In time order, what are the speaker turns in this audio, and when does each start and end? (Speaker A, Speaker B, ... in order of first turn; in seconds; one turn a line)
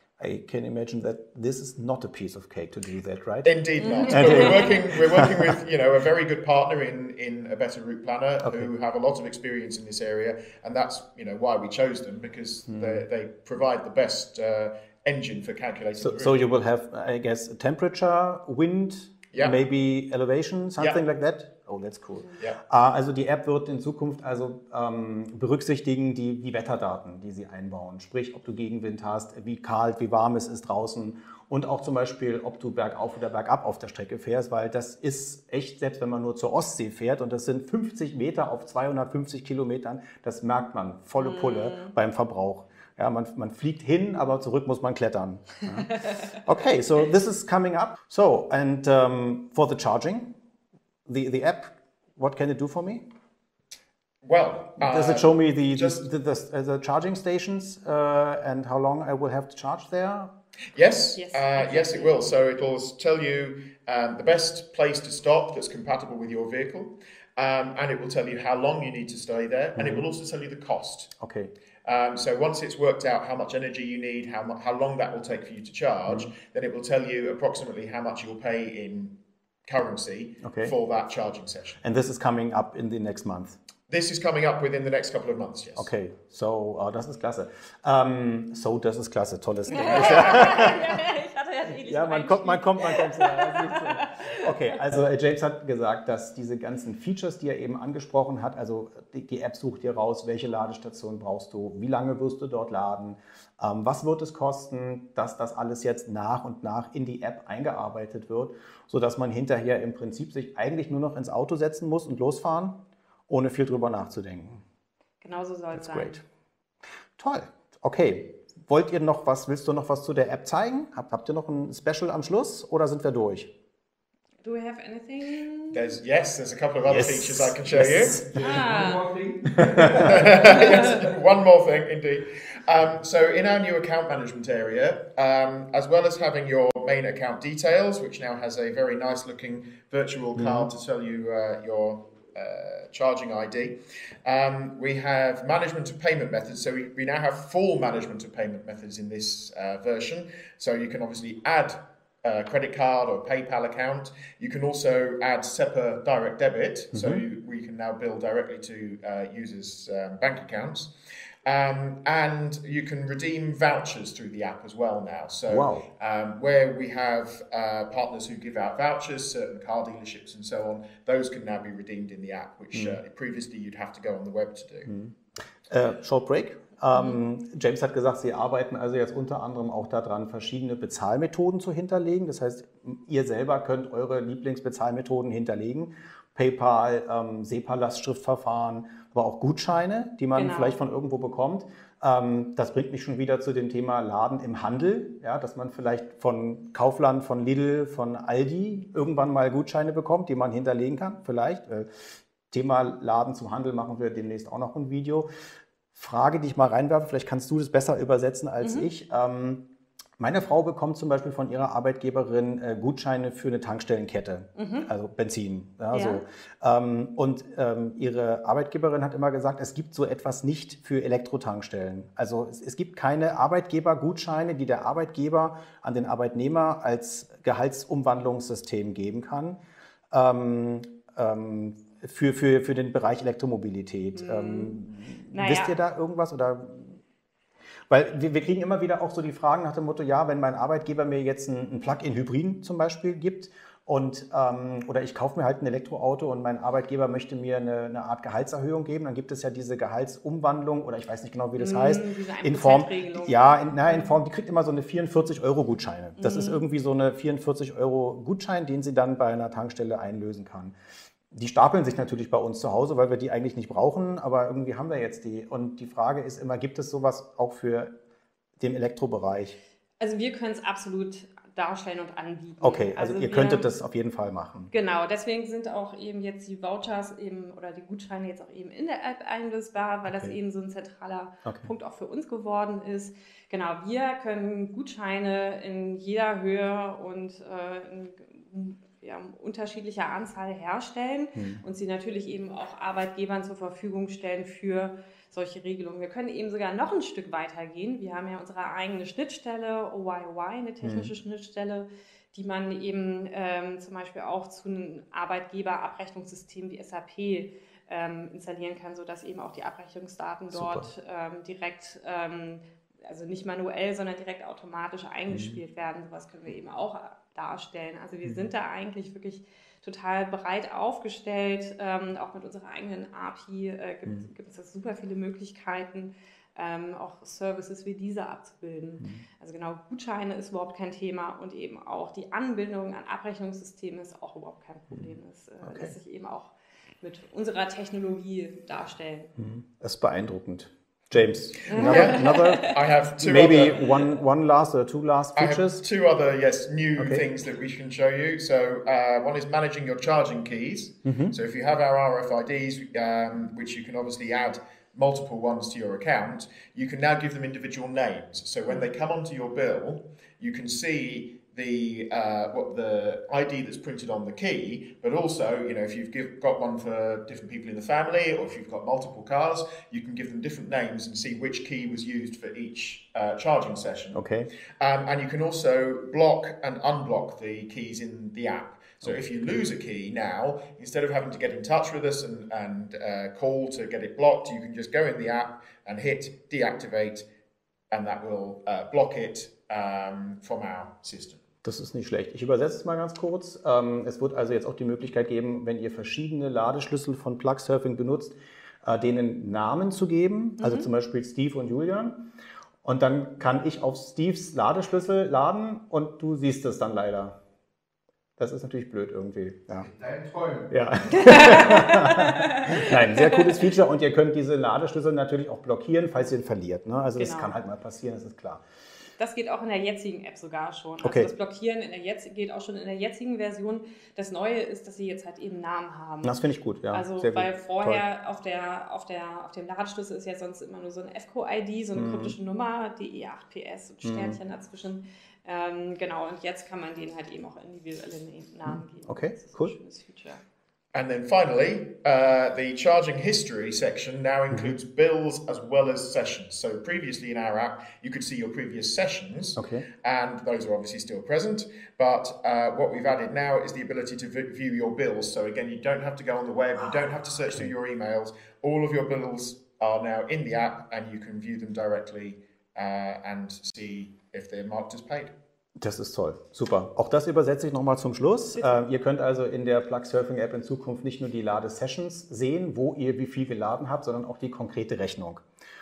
Speaker A: 0.2-3.5
Speaker B: 3.4-16.4
Speaker C: 3.8-4.7
Speaker A: 4.0-5.5
Speaker A: 8.4-8.7
Speaker A: 12.7-13.0
Speaker A: 16.0-50.4
Speaker C: 41.2-41.9
Speaker A: 51.0-53.0
Speaker B: 54.2-56.0
Speaker A: 54.8-60.3
Speaker B: 60.7-71.1
Speaker C: 61.1-62.2
Speaker A: 69.8-70.1
Speaker A: 71.2-71.5
Speaker B: 71.8-81.8
Speaker A: 76.1-76.3
Speaker A: 80.4-80.7
Speaker A: 81.8-83.6
Speaker B: 83.9-85.9
Speaker A: 85.7-91.0
Speaker C: 89.7-94.5
Speaker A: 91.8-114.6
Speaker C: 115.2-116.2
Speaker A: 115.7-116.2
Speaker A: 117.2-123.5
Speaker C: 124.4-125.9
Speaker B: 125.7-128.3
Speaker A: 126.8-128.6
Speaker C: 128.3-131.0
Speaker A: 129.4-130.3
Speaker B: 129.6-160.9
Speaker A: 140.3-140.7
Speaker A: 156.9-157.2
Speaker B: 161.4-174.9
Speaker A: 165.5-165.8
Speaker A: 172.7-173.0
Speaker A: 174.9-175.2
Speaker A: 175.7-205.3
Speaker C: 190.3-190.8
Speaker A: 205.9-209.7
Speaker C: 208.6-208.9
Speaker A: 210.2-229.6
Speaker C: 214.6-214.9
Speaker C: 215.9-216.2
Speaker A: 230.1-237.0
Speaker C: 234.1-234.8
Speaker C: 235.3-235.8
Speaker A: 237.9-260.8
Speaker C: 251.6-253.4
Speaker C: 256.2-256.6
Speaker A: 261.3-267.9
Speaker A: 268.6-269.6
Speaker C: 270.0-273.7
Speaker A: 272.6-274.7
Speaker C: 274.7-339.3
Speaker A: 280.1-280.3
Speaker A: 281.4-281.7
Speaker A: 291.4-291.6
Speaker A: 300.8-301.1
Speaker A: 310.5-310.9
Speaker A: 315.3-315.6
Speaker A: 335.6-335.9
Speaker A: 339.4-345.8
Speaker B: 341.6-343.9
Speaker C: 341.7-342.8
Speaker B: 345.4-374.2
Speaker A: 347.0-347.3
Speaker A: 351.0-351.3
Speaker A: 374.1-374.5
Speaker B: 374.8-387.2
Speaker A: 379.0-379.6
Speaker B: 387.9-391.4
Speaker A: 391.6-402.3
Speaker C: 400.6-400.9
Speaker A: 402.8-407.4
Speaker A: 408.4-410.0
Speaker A: 410.6-418.6
Speaker C: 411.1-413.7
Speaker C: 417.1-417.5
Speaker C: 419.2-426.4
Speaker A: 421.0-421.3
Speaker A: 426.2-428.0
Speaker C: 426.9-440.4
Speaker A: 431.9-432.4
Speaker A: 434.0-434.4
Speaker A: 438.6-439.7
Speaker B: 440.9-465.3
Speaker A: 444.5-444.8
Speaker A: 449.6-449.9
Speaker A: 465.8-475.4